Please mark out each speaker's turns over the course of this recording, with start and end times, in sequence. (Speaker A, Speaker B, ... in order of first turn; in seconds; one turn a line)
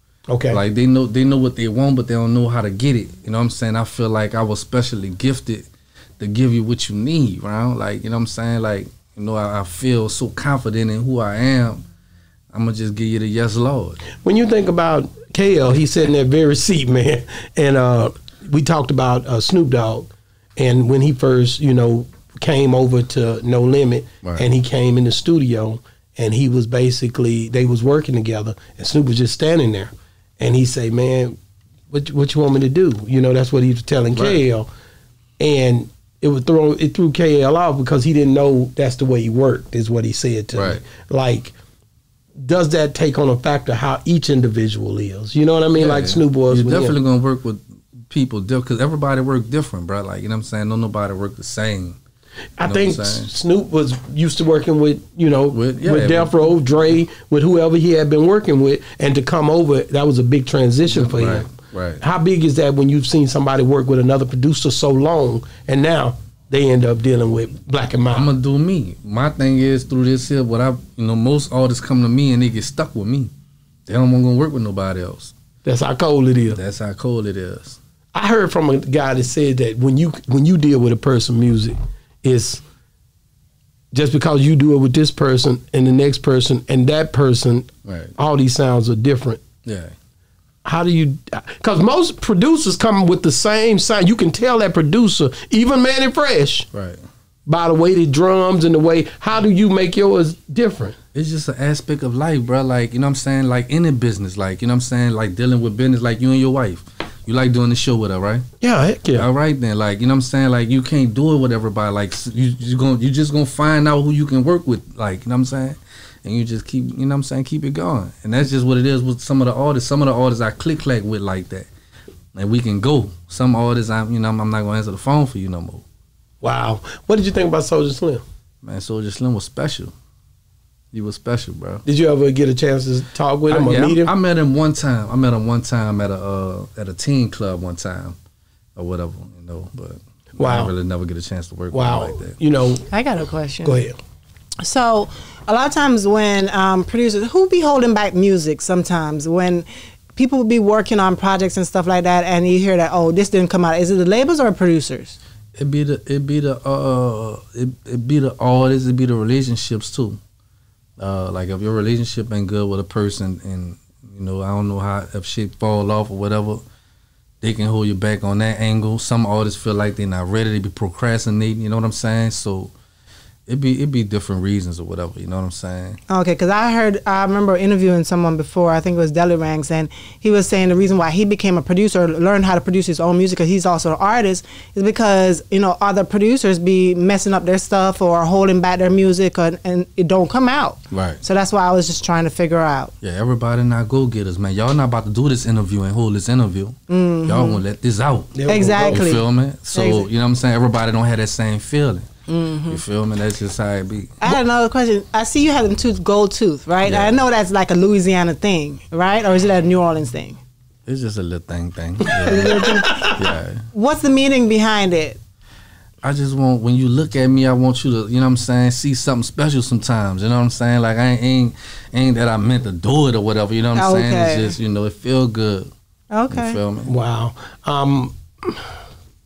Speaker A: 0.3-0.6
Speaker B: 0.5-5.7
Speaker B: 6.2-11.8
Speaker B: 12.5-14.0
Speaker A: 14.1-31.4
Speaker A: 31.9-34.7
Speaker B: 34.1-34.4
Speaker A: 35.4-41.5
Speaker B: 40.5-40.8
Speaker A: 42.4-47.0
Speaker B: 45.7-52.0
Speaker A: 52.6-61.5
Speaker B: 52.6-53.3
Speaker B: 55.5-56.3
Speaker B: 60.9-62.0
Speaker A: 62.0-68.3
Speaker B: 68.1-73.3
Speaker B: 73.8-75.3
Speaker A: 75.6-76.6
Speaker B: 76.5-77.8
Speaker A: 78.1-82.6
Speaker A: 83.9-89.4
Speaker B: 87.8-88.1
Speaker B: 89.6-89.9
Speaker A: 90.6-96.7
Speaker B: 96.7-97.0
Speaker A: 97.5-101.0
Speaker B: 101.1-108.4
Speaker A: 108.6-109.3
Speaker B: 109.1-121.7
Speaker B: 122.3-125.8
Speaker A: 126.4-128.2
Speaker B: 128.6-129.9
Speaker B: 130.9-131.8
Speaker A: 131.8-134.1
Speaker B: 133.5-138.2
Speaker B: 138.8-142.3
Speaker A: 140.4-140.7
Speaker A: 141.7-142.8
Speaker C: 142.9-143.8
Speaker A: 143.6-143.9
Speaker C: 144.6-155.2
Speaker B: 155.6-160.2
Speaker B: 161.0-166.6
Speaker B: 167.4-172.7
Speaker B: 173.5-176.0
Speaker C: 176.1-192.9
Speaker B: 190.9-191.2
Speaker B: 193.0-202.1
Speaker C: 196.9-197.6
Speaker A: 198.3-199.1
Speaker C: 198.5-200.1
Speaker C: 202.3-202.8
Speaker B: 202.7-204.4
Speaker C: 204.2-210.4
Speaker B: 206.8-207.2
Speaker B: 210.8-213.6
Speaker C: 212.1-213.1
Speaker A: 212.5-213.2
Speaker C: 213.7-215.2
Speaker B: 216.0-225.7
Speaker C: 223.8-224.6
Speaker C: 226.1-226.6
Speaker B: 226.3-226.9
Speaker A: 226.9-228.6